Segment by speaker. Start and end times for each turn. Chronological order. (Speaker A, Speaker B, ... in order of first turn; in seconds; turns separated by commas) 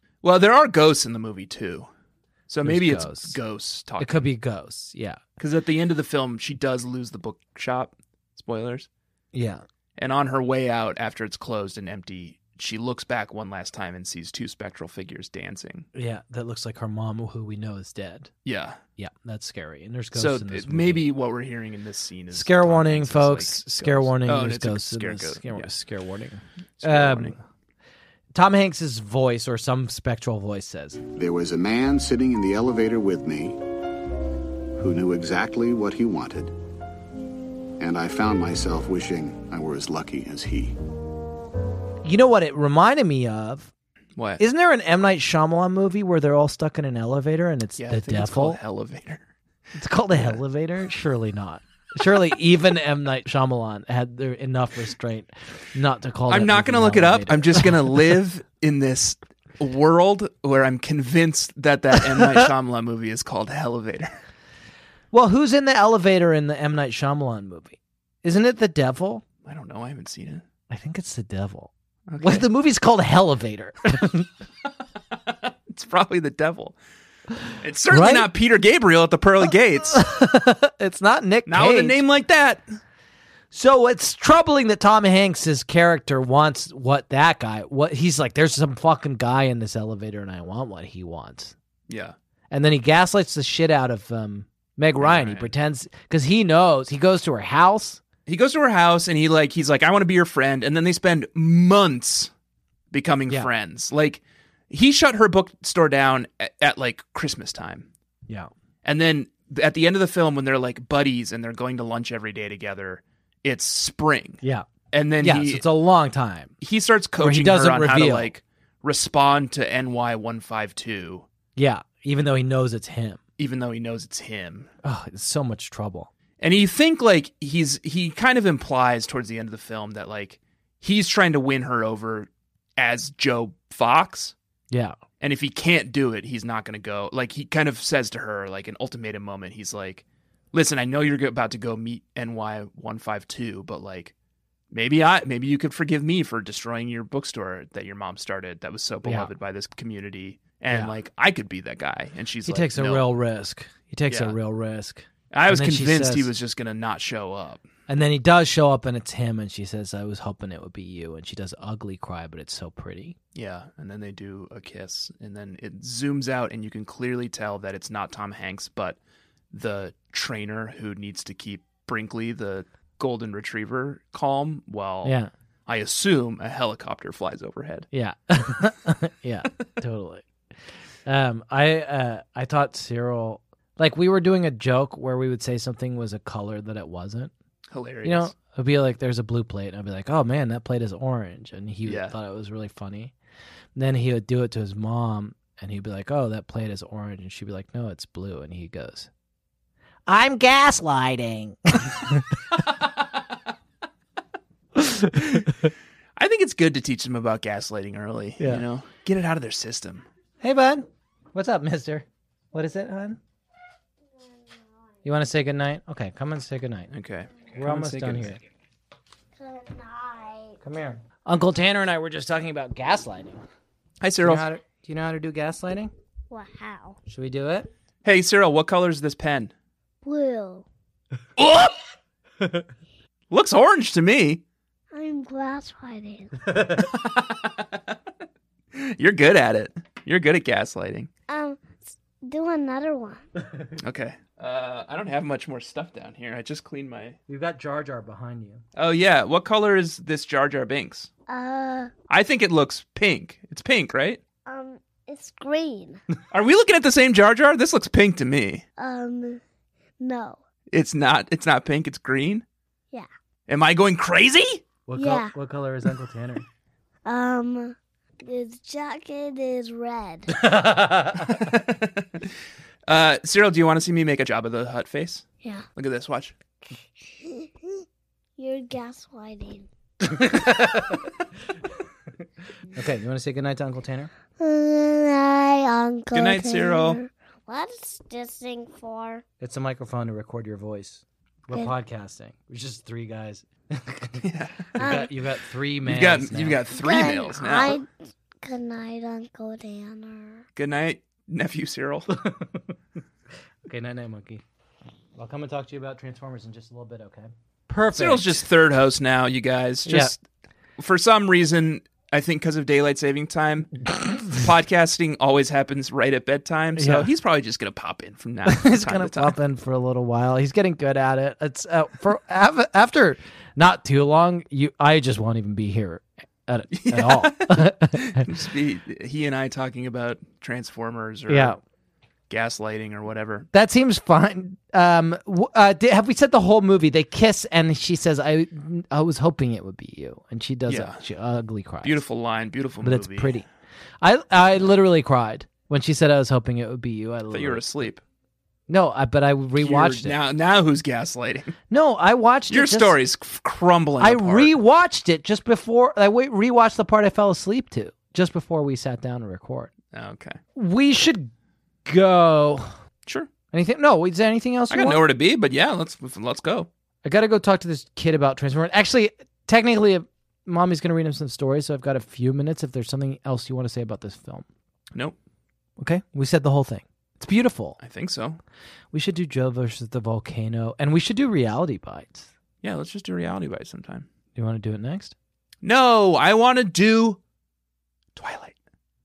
Speaker A: 0.2-1.9, Speaker A: 2.5-4.2, Speaker B: 2.6-3.4, Speaker B: 4.0-5.2, Speaker A: 5.4-8.9, Speaker B: 9.3-9.6, Speaker A: 10.0-15.9, Speaker B: 15.9-18.3, Speaker A: 18.4-18.8, Speaker B: 19.0-21.1, Speaker A: 20.1-25.7, Speaker B: 22.3-27.4, Speaker A: 26.8-27.4, Speaker B: 28.3-31.0, Speaker C: 31.1-33.6, Speaker C: 34.8-36.5, Speaker C: 37.8-40.7, Speaker B: 42.0-43.7, Speaker A: 44.1-44.4, Speaker B: 44.4-48.6, Speaker A: 47.8-49.2, Speaker B: 49.8-58.0, Speaker A: 56.3-64.1, Speaker B: 65.1-69.2, Speaker A: 69.4-70.4, Speaker B: 70.7-74.3, Speaker A: 72.1-72.4, Speaker A: 75.1-76.8, Speaker A: 77.6-80.0, Speaker B: 77.9-78.3, Speaker B: 79.8-82.0, Speaker A: 81.5-82.6, Speaker B: 83.5-91.5, Speaker A: 91.9-92.2, Speaker B: 92.5-98.0, Speaker A: 95.0-95.5, Speaker A: 98.2-102.3, Speaker A: 102.9-107.9, Speaker A: 108.8-115.6, Speaker B: 115.2-116.5, Speaker A: 116.6-121.3, Speaker B: 117.2-118.3, Speaker B: 121.5-123.2, Speaker A: 123.4-124.7, Speaker B: 124.8-126.1, Speaker A: 126.4-134.3, Speaker B: 134.7-135.0, Speaker A: 135.2-144.1, Speaker A: 144.7-153.1, Speaker B: 149.0-149.3, Speaker B: 150.7-150.9, Speaker B: 152.4-156.3, Speaker A: 154.1-154.3, Speaker A: 155.3-157.6, Speaker B: 157.9-163.1, Speaker A: 163.3-169.0, Speaker A: 169.5-175.1, Speaker B: 175.0-175.3, Speaker A: 175.7-177.9, Speaker B: 177.9-180.2, Speaker B: 181.0-187.3, Speaker A: 187.7-188.3, Speaker B: 188.0-193.1, Speaker A: 191.8-192.1, Speaker B: 193.8-199.1, Speaker B: 200.1-202.4, Speaker B: 204.8-205.7, Speaker A: 206.2-210.1, Speaker B: 208.4-208.6, Speaker B: 210.4-213.2, Speaker D: 214.2-214.6, Speaker B: 215.0-216.9, Speaker A: 216.9-218.3, Speaker B: 217.6-218.4, Speaker D: 219.4-220.6, Speaker B: 220.6-223.4, Speaker A: 224.0-224.4, Speaker B: 224.2-225.9, Speaker D: 226.3-227.0, Speaker B: 227.1-227.7, Speaker A: 228.0-229.5, Speaker D: 230.0-230.6, Speaker A: 231.4-231.7, Speaker A: 233.3-234.4, Speaker D: 234.9-236.4, Speaker A: 236.8-237.8, Speaker A: 238.7-241.1, Speaker D: 241.3-243.2, Speaker A: 243.8-247.2, Speaker B: 247.3-248.6, Speaker A: 248.7-251.1, Speaker D: 251.3-251.9, Speaker A: 252.1-254.2, Speaker D: 254.4-256.0, Speaker A: 256.3-258.6, Speaker D: 258.8-259.4, Speaker D: 260.0-260.4, Speaker A: 260.7-262.4, Speaker A: 263.5-264.6, Speaker B: 264.9-266.4, Speaker D: 265.0-265.3, Speaker D: 267.1-270.4, Speaker B: 270.4-271.3, Speaker A: 271.2-272.3, Speaker A: 272.9-275.2, Speaker A: 275.8-276.3, Speaker D: 277.1-277.8, Speaker D: 278.4-279.7, Speaker B: 280.1-281.0, Speaker B: 282.8-284.1, Speaker D: 284.4-289.2, Speaker A: 286.1-287.0, Speaker B: 289.4-296.6, Speaker A: 294.2-295.1, Speaker D: 294.8-295.1, Speaker A: 295.8-297.8, Speaker D: 296.8-297.9, Speaker D: 298.4-300.4, Speaker A: 300.6-302.1, Speaker B: 302.1-302.7, Speaker B: 303.7-304.4, Speaker B: 305.2-308.4, Speaker A: 307.9-310.2, Speaker B: 309.9-310.1, Speaker A: 310.8-319.4, Speaker B: 316.8-317.1, Speaker B: 318.5-328.2, Speaker A: 326.7-331.6, Speaker B: 331.3-331.6, Speaker A: 332.3-333.5, Speaker B: 333.5-342.0, Speaker A: 340.7-341.0, Speaker A: 341.8-343.3, Speaker B: 342.8-343.4, Speaker B: 344.0-347.8, Speaker A: 347.3-348.0, Speaker B: 348.7-350.2, Speaker A: 349.6-351.5, Speaker B: 351.7-353.0, Speaker A: 352.5-354.5, Speaker B: 354.0-359.7, Speaker A: 359.9-360.4, Speaker B: 360.6-361.3, Speaker B: 361.9-362.7, Speaker B: 363.5-365.0, Speaker A: 364.7-366.7, Speaker B: 367.0-374.4, Speaker B: 375.8-377.8, Speaker A: 377.8-378.4, Speaker B: 378.9-382.3, Speaker A: 382.6-384.1, Speaker B: 384.4-385.1, Speaker A: 385.6-387.2, Speaker A: 388.1-388.6